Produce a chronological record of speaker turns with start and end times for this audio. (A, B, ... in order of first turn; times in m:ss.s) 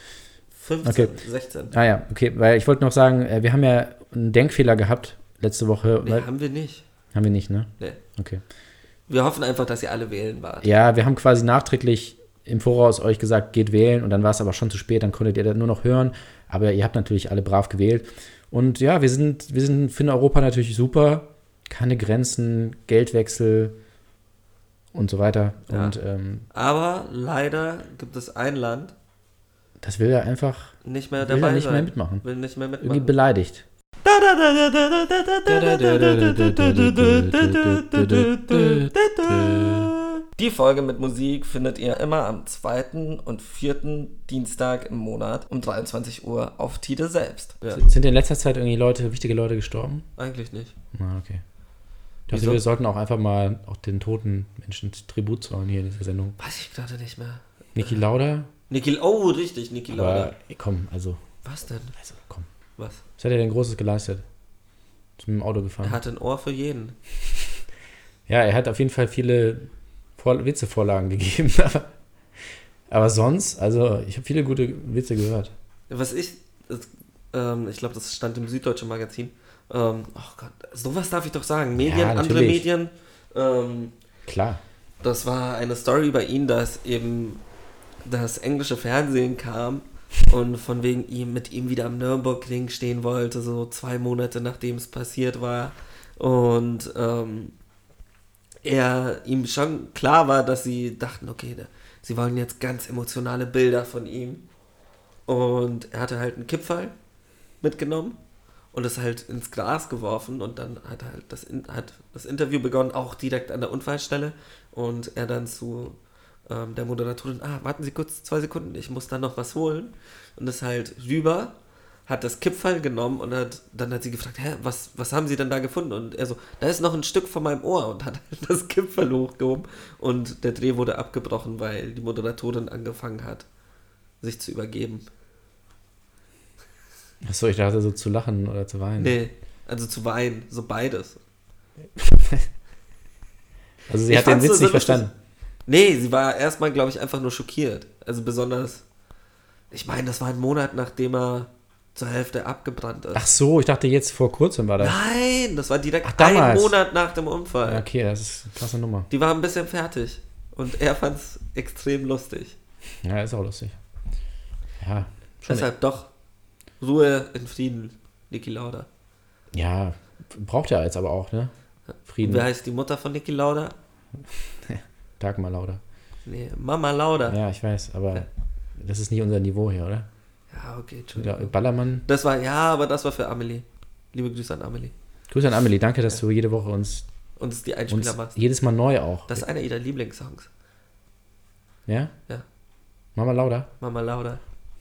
0:00.6-0:01.7 A
0:00.8-0:01.1 B
0:01.7-0:06.3 B
0:06.0-0:06.8 A
0:07.1-0:08.4 B
0:09.1-0:10.7 A
0:10.6-0:23.7 B
0:24.9-0:26.5 B
0:25.7-0:26.0 A
0:26.5-0:28.9 A
0:29.8-0:32.2 B
0:30.8-0:33.1 A
0:32.8-0:33.6 B
0:34.0-0:47.8 A
0:35.5-0:39.9 B
0:47.7-0:50.0 B
0:50.2-0:50.7 A
0:50.9-0:51.4 B
0:52.3-0:56.4 B
0:52.3-0:52.6 A
0:56.4-0:58.0 A
0:57.7-0:58.5 B
0:58.7-1:00.3 A
0:59.9-1:01.2 B
1:01.4-1:01.9 A
1:02.0-1:02.5 B
1:02.8-1:03.0 A
1:03.2-1:04.2 B
1:05.2-1:06.0 B
1:05.8-1:07.0 A
1:08.3-1:11.9 B
1:12.9-1:15.5 B
1:15.9-1:23.9 A
1:21.8-1:22.6 B
1:24.2-1:24.6 B
1:25.0-1:27.4 A
1:28.0-1:37.5 A
1:38.6-1:44.4 A
1:45.3-1:46.9 A
1:47.6-1:48.2 A
1:48.7-1:56.0 A
1:56.5-2:01.5 A
2:02.1-2:13.4 A
2:14.2-2:15.0 A
2:17.2-2:19.2 B
2:19.0-2:21.2 A
2:22.0-2:22.4 B
2:23.9-2:25.1 B
2:24.1-2:25.0 A
2:25.7-2:28.8 A
2:29.7-2:33.2 A
2:33.1-2:35.0 B
2:34.8-2:37.8 A
2:36.0-2:36.7 B
2:37.6-2:39.1 B
2:39.1-2:42.6 A
2:43.0-2:43.7 B
2:44.8-2:45.7 B
2:45.5-2:46.1 A
2:46.8-2:48.9 A
2:49.5-2:51.5 B
2:52.1-2:52.4 B
2:52.2-2:53.7 A
2:54.6-2:55.8 B
2:56.2-2:57.4 A
2:57.3-2:58.3 B
2:58.8-3:00.1 B
3:00.5-3:01.5 A
3:01.2-3:02.0 B
3:02.0-3:04.9 A
3:05.3-3:07.0 B
3:07.4-3:08.4 A
3:07.9-3:09.4 B
3:09.3-3:10.5 A
3:11.9-3:12.1 B
3:13.2-3:13.7 B
3:13.8-3:14.4 A